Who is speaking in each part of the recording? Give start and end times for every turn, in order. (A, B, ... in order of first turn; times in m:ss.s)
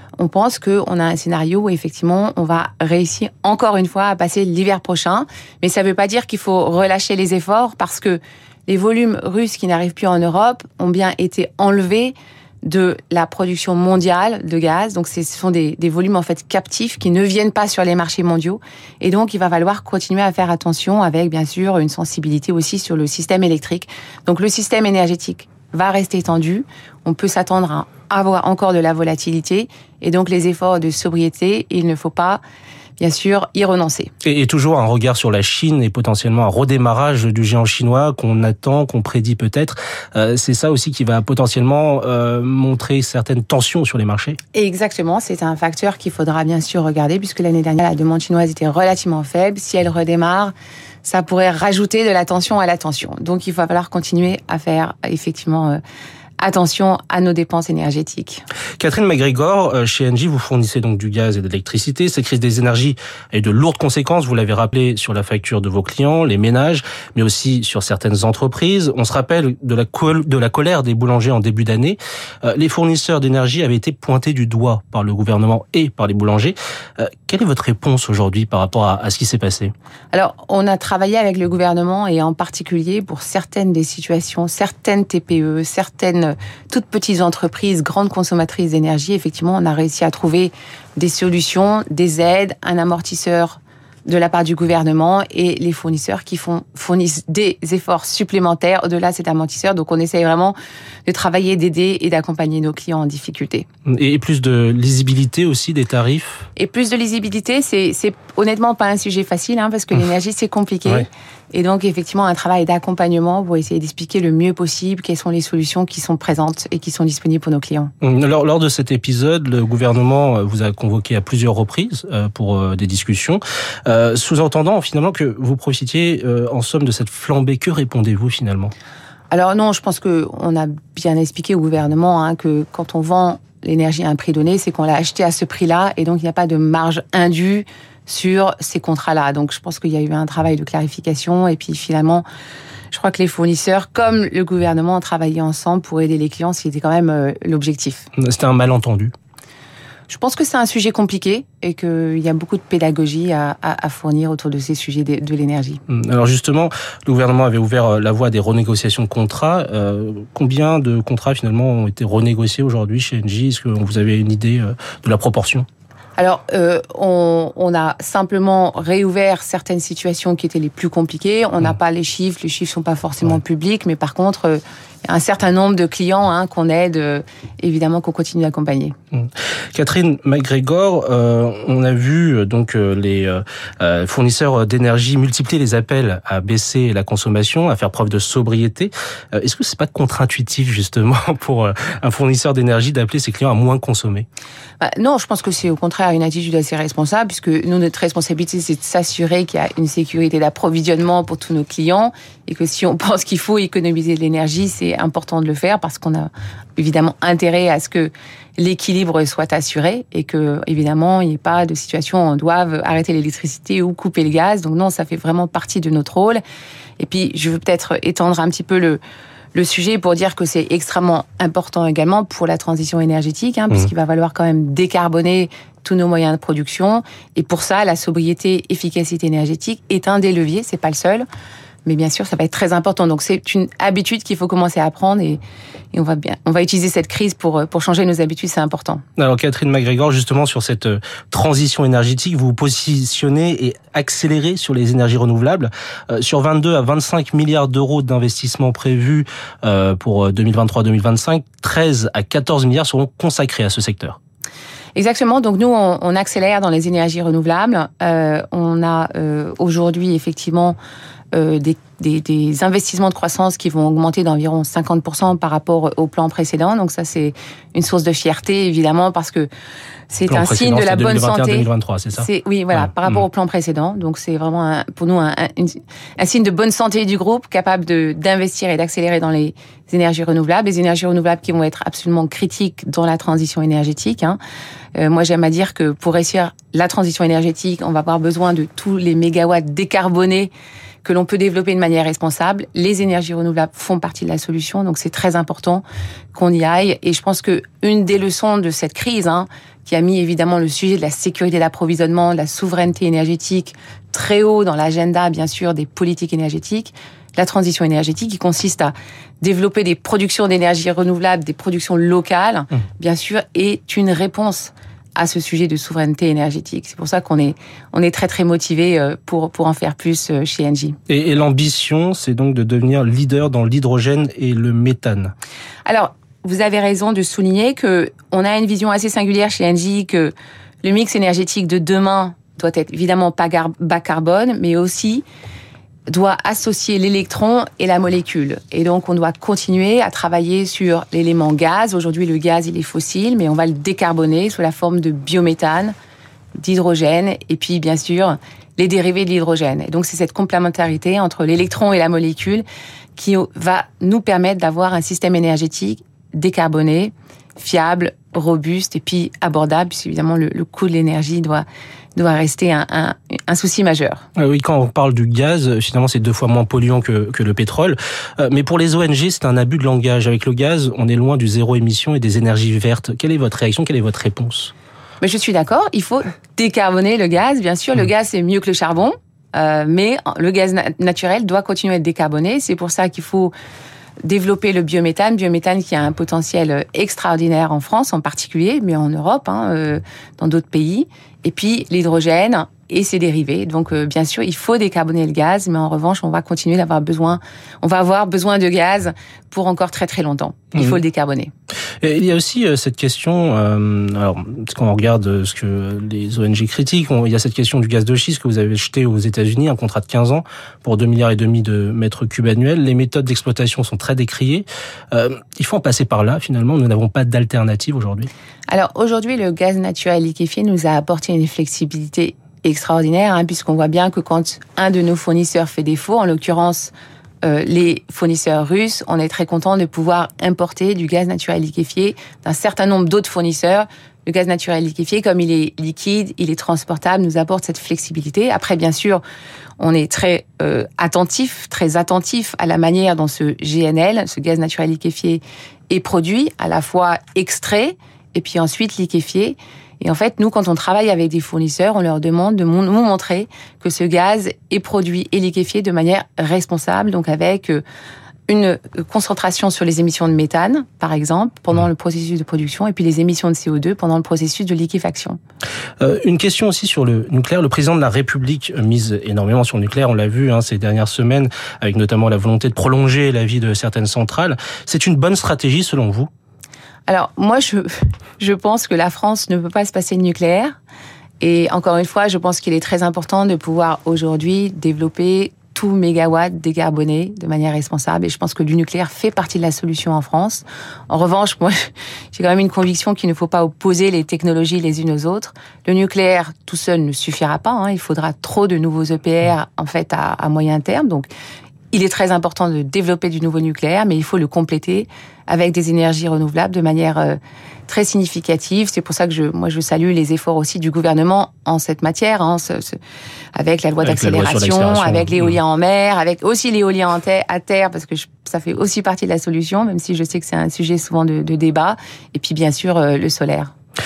0:00.2-0:32.4 A
0:33.0-0:34.1 A
0:34.2-0:44.4 B
0:44.5-0:50.5 A
0:51.0-0:55.8 A
0:56.4-0:58.4 A
0:58.8-1:19.7 B
1:20.1-1:43.7 A
1:43.9-1:46.5 B
1:46.6-1:57.9 A
1:58.0-2:08.7 B
2:09.3-2:22.2 A
2:22.9-2:28.1 A
2:28.2-2:29.1 B
2:30.1-2:35.8 A
2:35.9-2:45.7 B
2:46.2-2:58.9 A
2:59.1-3:14.3 B
3:14.8-3:36.4 A
3:37.0-3:39.0 A
3:39.5-3:51.2 A
3:51.8-3:55.4 A
3:55.9-3:59.0 A
3:59.2-4:14.2 B
4:15.0-4:20.8 A
4:21.3-4:29.5 A
4:30.1-4:44.4 A
4:30.3-4:32.3 B
4:45.0-4:50.5 A
4:51.0-5:21.0 A
5:21.1-5:25.3 B
5:25.9-5:35.2 A
5:36.1-5:45.9 A
5:46.6-5:52.6 A
5:53.2-6:01.6 A
6:02.2-6:04.2 A
6:04.4-6:14.7 B
6:15.2-6:23.5 A
6:24.2-6:41.5 A
6:42.0-6:58.3 B
6:58.7-7:06.9 A
7:07.4-7:19.2 A
7:19.8-7:37.8 A
7:38.5-7:45.4 A
7:46.0-7:56.3 B
7:57.1-8:00.7 A
8:01.4-8:21.3 A
8:21.9-8:33.0 A
8:33.6-8:43.7 A
8:34.0-8:35.6 B